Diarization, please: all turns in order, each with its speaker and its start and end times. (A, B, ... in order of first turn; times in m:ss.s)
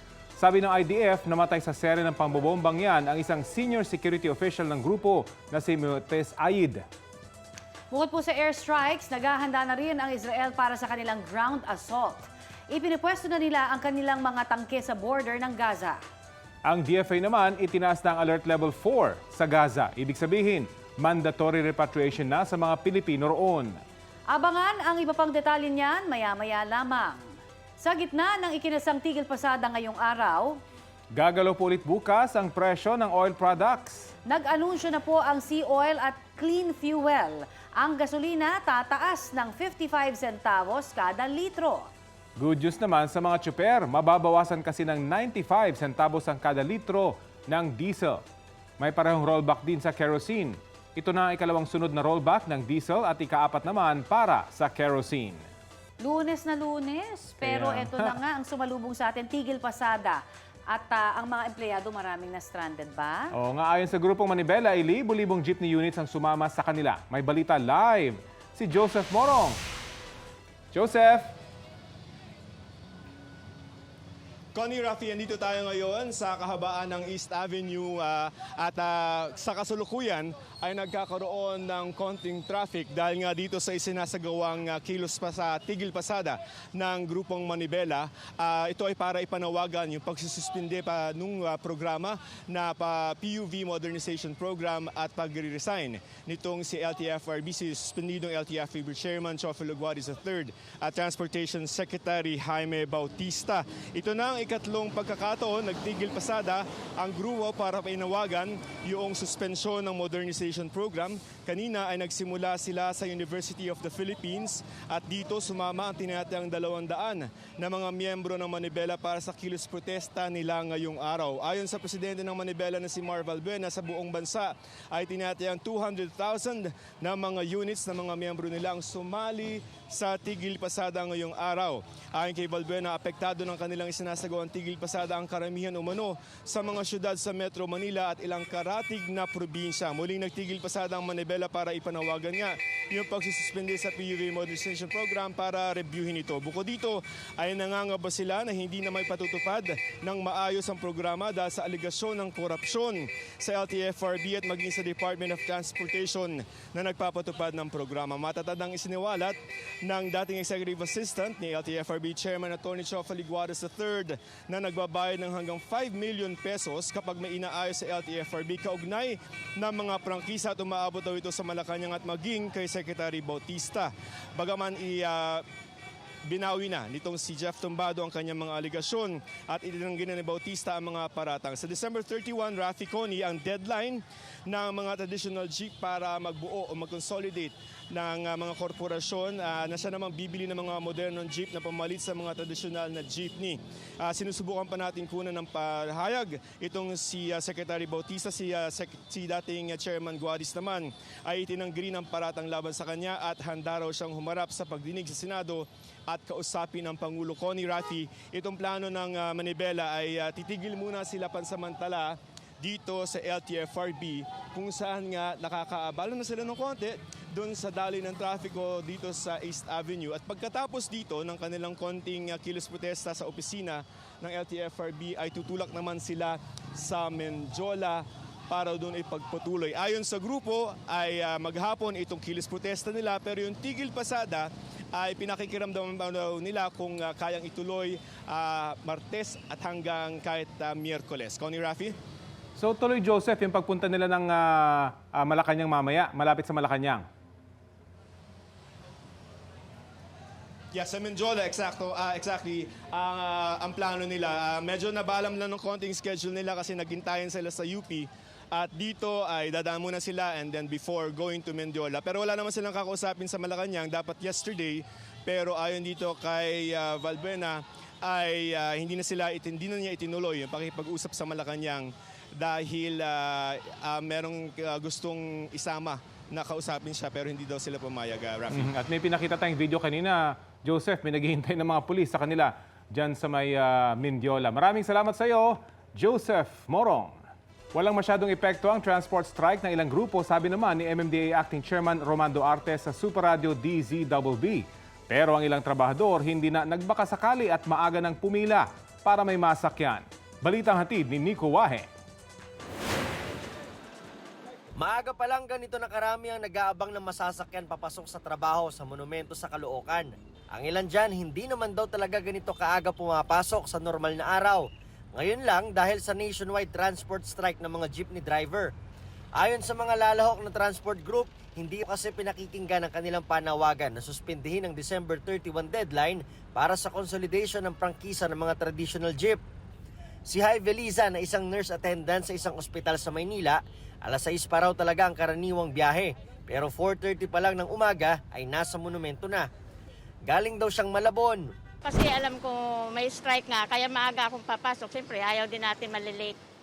0:00.4-0:06.8 A
0:07.9-0:16.0 B
0:16.6-0:23.7 A
0:24.3-0:27.2 B
0:27.8-0:30.6 B
0:31.1-0:34.1 A
0:34.3-0:41.9 B
0:42.4-0:48.2 A
0:48.8-0:55.4 A
0:56.0-1:03.3 B
0:57.4-0:58.2 A
1:03.4-1:09.6 A
1:10.7-1:11.3 A
1:14.5-2:55.4 C
2:56.2-4:02.0 C
4:02.6-4:07.0 A
4:10.7-4:38.7 C
4:38.5-4:47.2 A
4:47.7-5:01.8 A
5:04.8-5:14.6 D
5:15.2-5:18.7 D
5:19.4-5:29.4 D
5:30.3-5:39.4 D
5:40.3-5:41.5 D
5:41.8-5:46.3 E